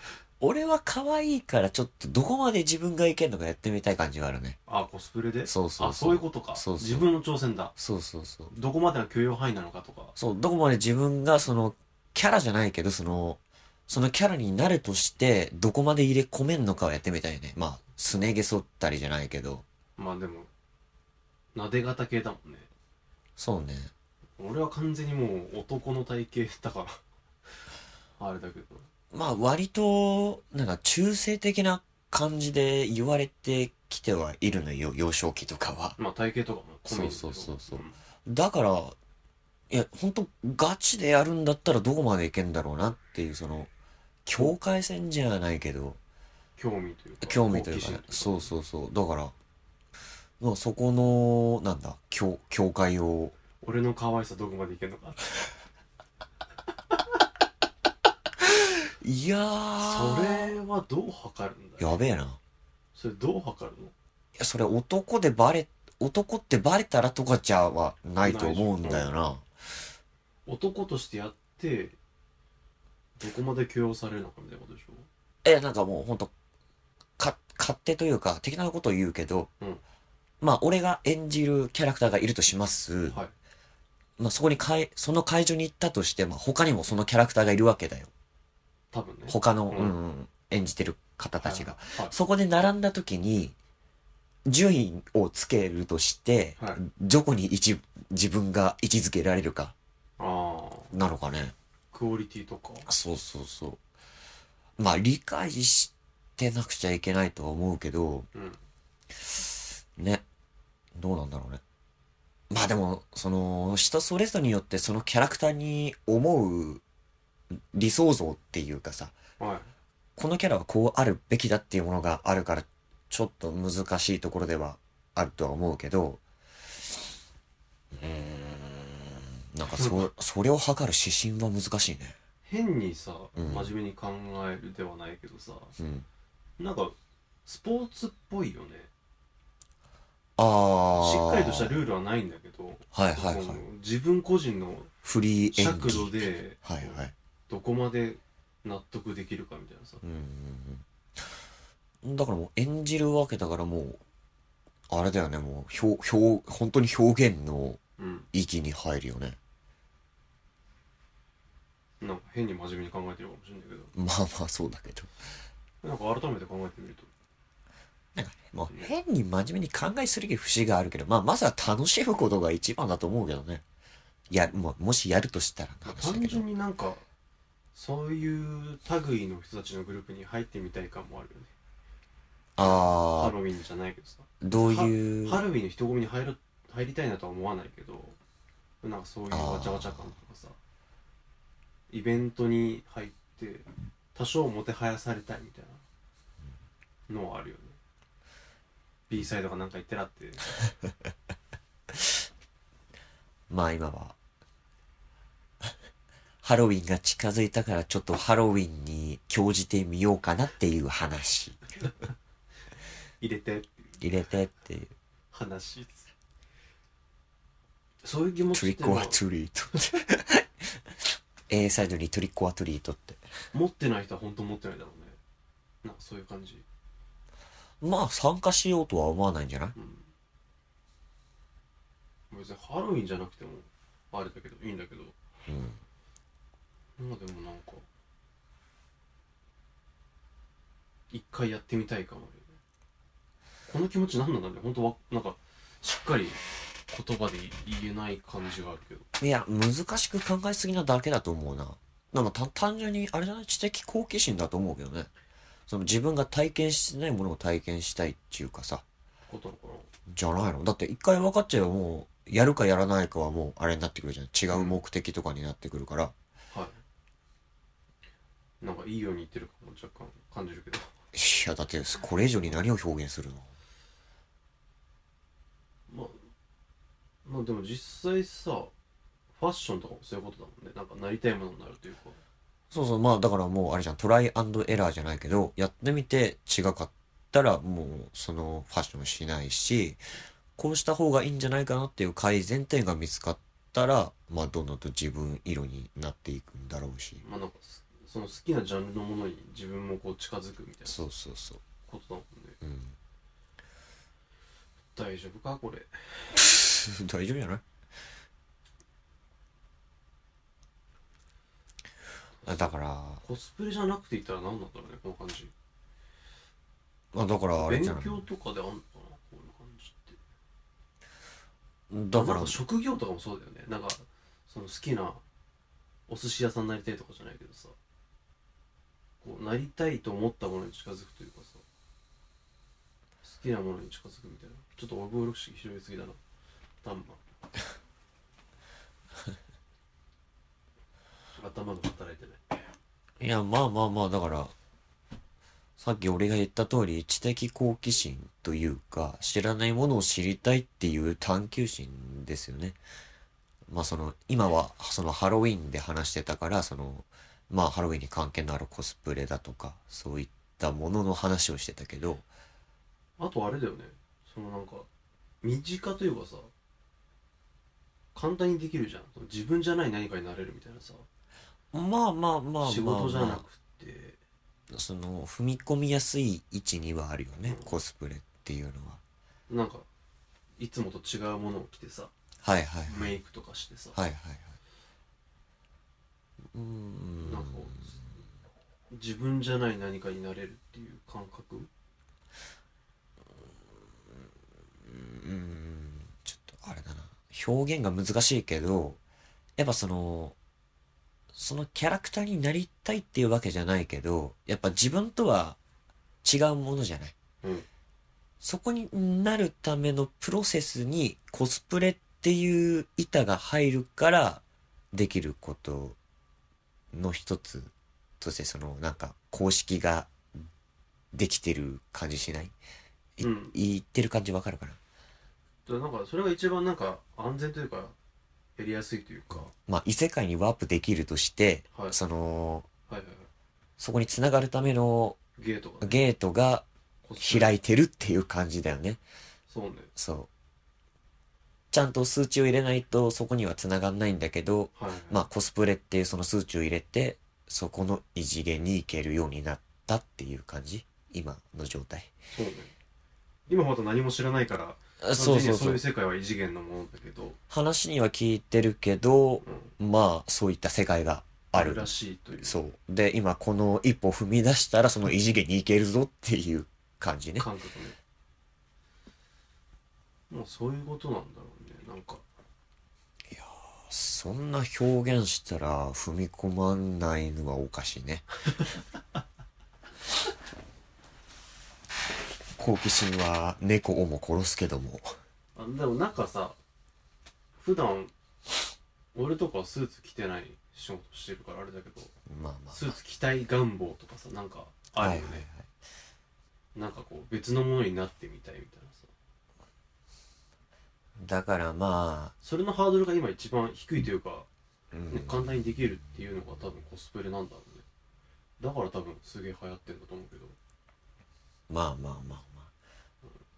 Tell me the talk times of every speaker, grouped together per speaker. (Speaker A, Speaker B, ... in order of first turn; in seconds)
Speaker A: 0.4-4.6, 5.5-7.1, 7.8-8.5, 10.2-19.6, 23.4-23.9, 29.1-36.0, 36.9-39.0, 39.7-43.7, 44.2-46.0, 47.2-49.3, 50.4-53.3, 58.4-60.6, 61.8-62.4, 64.3-69.7, 75.4-76.3, 77.2-79.5, 80.4-83.2, 84.2-88.1, 89.3-93.5, 94.5-99.7, 100.9-101.5, 102.8-103.8, 104.8-108.3, 109.2-110.2, 110.9-111.6, 112.5-116.8, 117.7-119.2, 120.2-126.2, 127.9-132.2, 133.3-133.7, 135.8-136.1, 140.4-141.8, 142.9-143.6, 145.0-147.1, 150.0-151.4, 152.0-154.0, 154.9-157.8, 158.3-159.4, 163.9-165.1, 168.1-173.6, 174.3-176.4, 182.6-183.3, 184.4-185.4, 189.3-190.1, 203.5-204.2, 206.4-211.6, 214.0-214.9, 218.5-223.2, 227.8-229.7, 235.5-235.8, 249.2-255.1, 255.7-258.8, 260.1-266.1, 271.1-273.5, 282.7-290.0, 290.6-297.2, 300.9-301.6, 302.6-302.9, 306.4-307.6, 312.4-313.2, 317.1-318.2, 321.9-322.6, 343.2-344.5, 345.8-352.8, 353.7-362.2, 371.7-373.4, 374.7-379.0, 382.4-383.1, 383.9-384.5, 386.5-388.0, 394.8-399.0, 399.6-400.4, 401.3-405.6, 406.2-407.1, 408.4-416.0, 416.9-420.1, 421.1-422.5, 423.2-424.8, 429.5-432.7, 433.8-435.2, 435.8-436.6, 437.2-439.0, 439.9-440.3, 441.7-452.1, 455.0-455.8, 457.5-461.9, 462.4-467.5, 473.3-478.2, 482.6-485.1, 492.3-492.8, 495.0-495.7, 501.2-502.3, 504.9-505.5, 511.7-512.7
Speaker B: 4.7-7.7, 8.5-10.1, 20.0-20.5, 21.5-22.7, 24.4-27.0, 28.2-28.9, 36.0-38.0, 46.6-48.5, 53.6-55.3, 59.8-62.0, 62.9-63.9, 68.2-69.1, 70.5-72.0, 73.2-75.1, 83.1-83.3, 88.9-90.0, 91.4-92.1, 100.2-100.9, 101.9-102.9, 108.3-108.6, 119.4-119.7, 129.7-130.1, 132.4-135.7, 136.6-136.9, 137.4-138.9, 140.9-144.9, 145.5-150.0, 158.0-158.3, 162.0-163.9, 165.8-167.1, 175.8-177.0, 177.7-181.5, 182.6-188.2, 188.8-190.6, 191.9-195.8, 197.1-197.8, 199.1-200.4, 213.2-214.0, 215.3-216.1, 218.0-219.2, 223.5-225.2, 225.8-226.6, 229.7-230.1, 232.3-235.2, 237.0-237.8, 241.1-242.6, 243.7-249.1, 259.3-259.9, 266.5-266.8, 268.6-270.9, 275.9-276.2, 277.2-278.7, 279.3-282.2, 297.2-301.0, 301.9-302.6, 304.9-306.4, 312.4-315.5, 317.6-320.2, 322.1-325.2, 326.1-327.7, 329.2-331.6, 333.2-336.2, 336.8-337.2, 341.3-342.7, 363.2-364.9, 365.4-366.5, 368.1-371.1, 372.6-374.2, 377.4-377.7, 379.5-379.9, 380.6-382.1, 382.9-384.0, 387.2-388.0, 388.9-391.7, 423.2-423.6, 425.6-427.9, 428.6-429.5, 431.7-432.0, 432.9-433.3, 435.4-436.0, 437.0-437.6, 439.5-439.9, 444.7-445.2, 452.3-452.7, 453.5-457.4, 459.4-459.7, 461.5-462.6, 467.4-468.0, 470.3-472.2, 485.6-486.6, 487.6-488.1, 489.1-492.1, 492.7-495.4, 496.7-499.1, 502.4-504.5, 505.1-507.8, 508.6-510.6